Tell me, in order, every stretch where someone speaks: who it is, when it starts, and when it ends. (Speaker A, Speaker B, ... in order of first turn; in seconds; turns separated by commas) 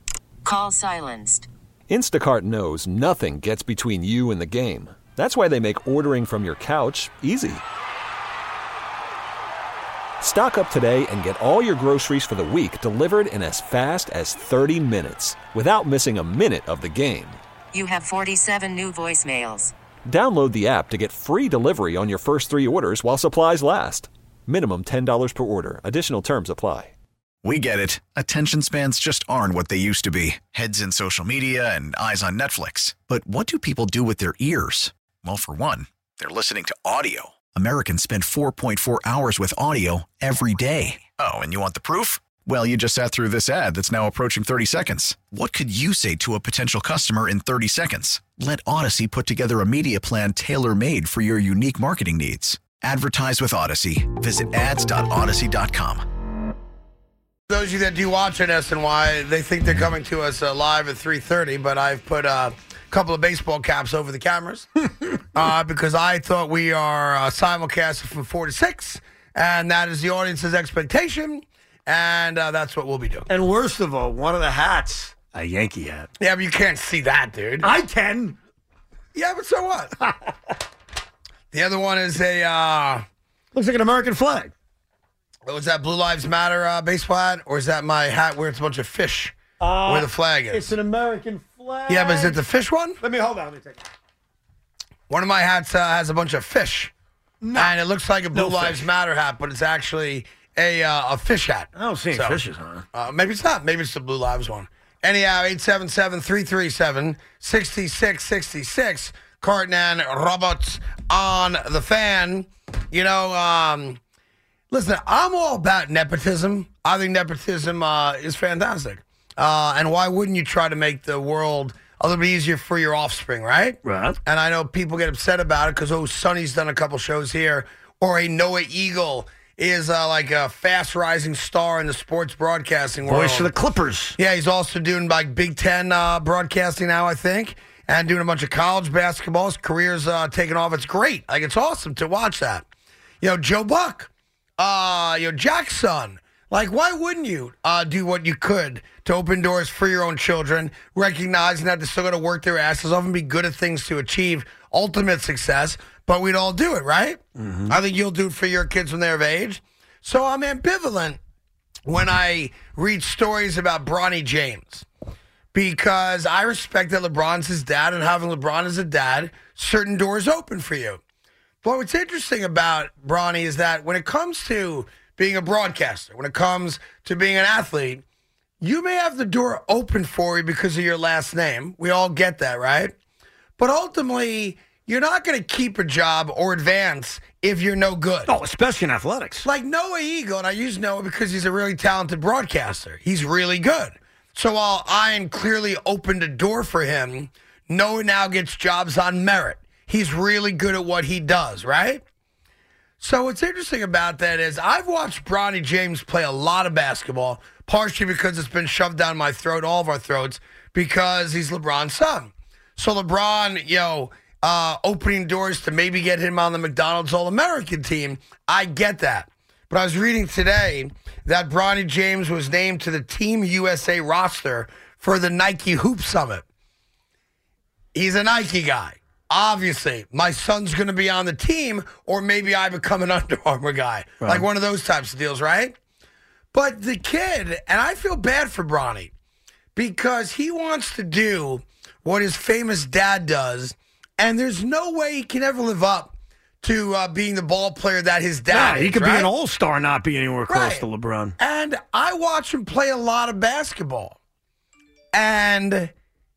Speaker A: 0.4-1.5, Speaker B: 1.9-7.6, Speaker B: 10.2-17.4, Speaker A: 17.7-19.7, Speaker B: 20.1-26.9, Speaker C: 27.4-56.0, Speaker D: 57.5-73.3, Speaker E: 73.3-76.1, Speaker D: 76.2-77.7, Speaker E: 77.6-78.4, Speaker D: 79.1-80.0, Speaker D: 81.5-83.0, Speaker E: 83.5-84.5, Speaker D: 85.5-90.7, Speaker E: 89.6-92.4, Speaker D: 91.9-93.0, Speaker E: 93.0-93.8, Speaker D: 95.1-96.9, Speaker E: 97.4-97.8, Speaker D: 97.5-102.4, Speaker E: 98.3-98.9, Speaker E: 101.7-102.8, Speaker D: 102.9-114.0, Speaker D: 114.7-133.5, Speaker E: 123.8-124.2, Speaker E: 133.0-134.2, Speaker D: 134.2-142.7, Speaker D: 143.2-161.2, Speaker E: 157.4-157.8, Speaker D: 161.8-164.8, Speaker D: 165.5-171.0, Speaker D: 171.6-178.0, Speaker D: 178.6-182.9, Speaker D: 183.6-188.3, Speaker E: 188.2-189.5, Speaker D: 189.4-202.0, Speaker D: 203.0-226.4, Speaker D: 227.9-235.8, Speaker D: 236.5-239.1, Speaker D: 239.8-249.3, Speaker E: 248.5-251.3, Speaker D: 250.5-250.8, Speaker D: 251.4-254.2, Speaker D: 255.1-255.9